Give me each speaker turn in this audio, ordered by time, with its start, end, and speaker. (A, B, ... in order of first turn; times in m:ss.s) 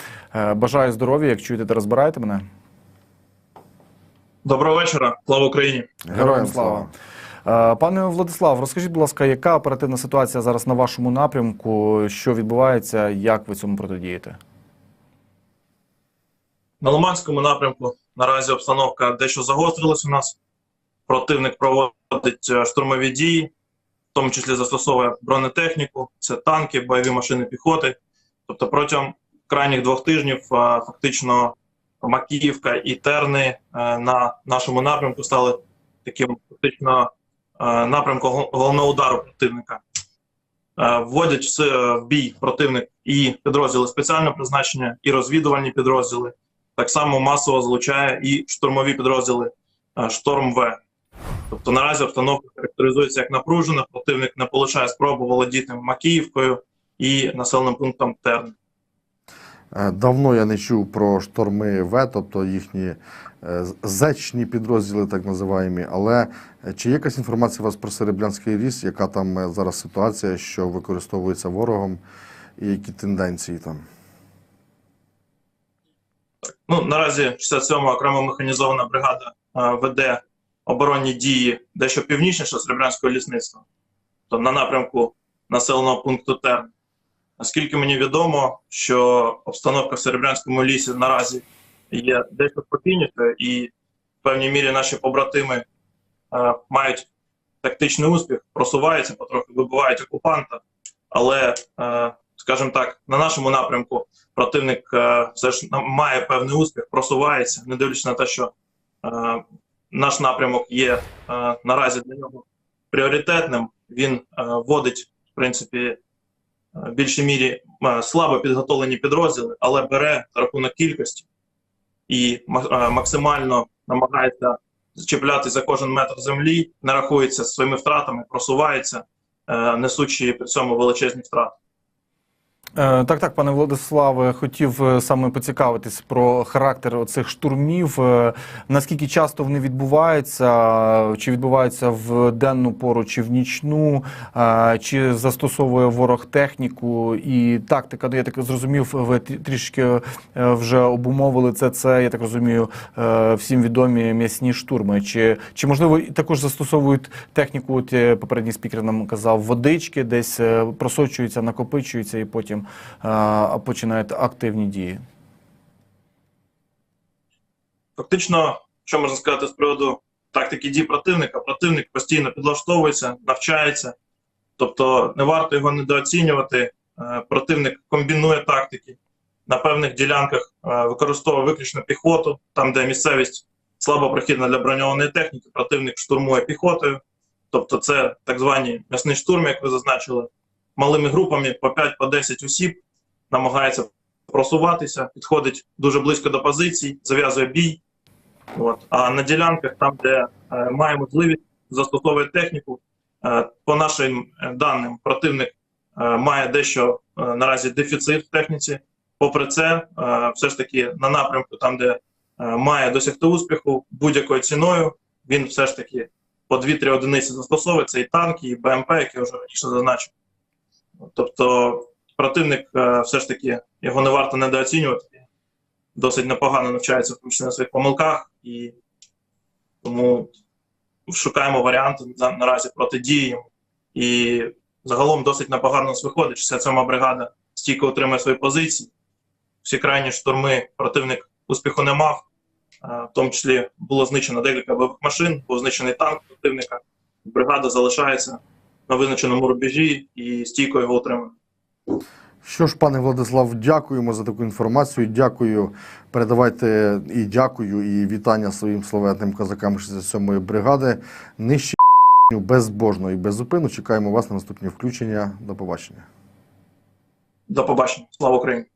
0:00.3-0:02.4 A
0:04.4-0:05.9 B
0:06.0-0:06.9 C
0:06.1-0:06.9 A
0:07.4-0:14.4 A
0:16.8-0:20.4 B
0:21.1-0:23.5 B
0:24.1-0:39.8 B
0:40.8-0:50.8 B
0:51.5-0:58.5 B
0:59.7-1:12.0 C
1:12.6-1:13.8 C
1:16.5-1:23.6 B
1:24.3-1:26.7 B
1:27.4-1:33.7 B
1:34.2-1:35.6 B
1:36.3-1:37.1 B
1:37.6-1:48.5 B
1:49.0-1:56.0 B
1:56.8-2:01.3 B
2:02.1-2:11.6 B
2:12.8-2:45.0 A
2:48.0-2:53.9 B
2:54.6-3:07.0 B
3:07.5-3:12.8 B
3:13.3-3:17.8 B
3:18.6-3:40.1 B
3:41.1-3:45.2 B
3:46.0-3:48.7 B
3:49.8-3:50.3 B
3:51.1-3:58.9 B
3:59.6-4:02.2 B
4:02.8-4:11.3 B
4:12.4-4:21.8 C
4:22.3-4:26.0 C
4:27.5-4:28.7 B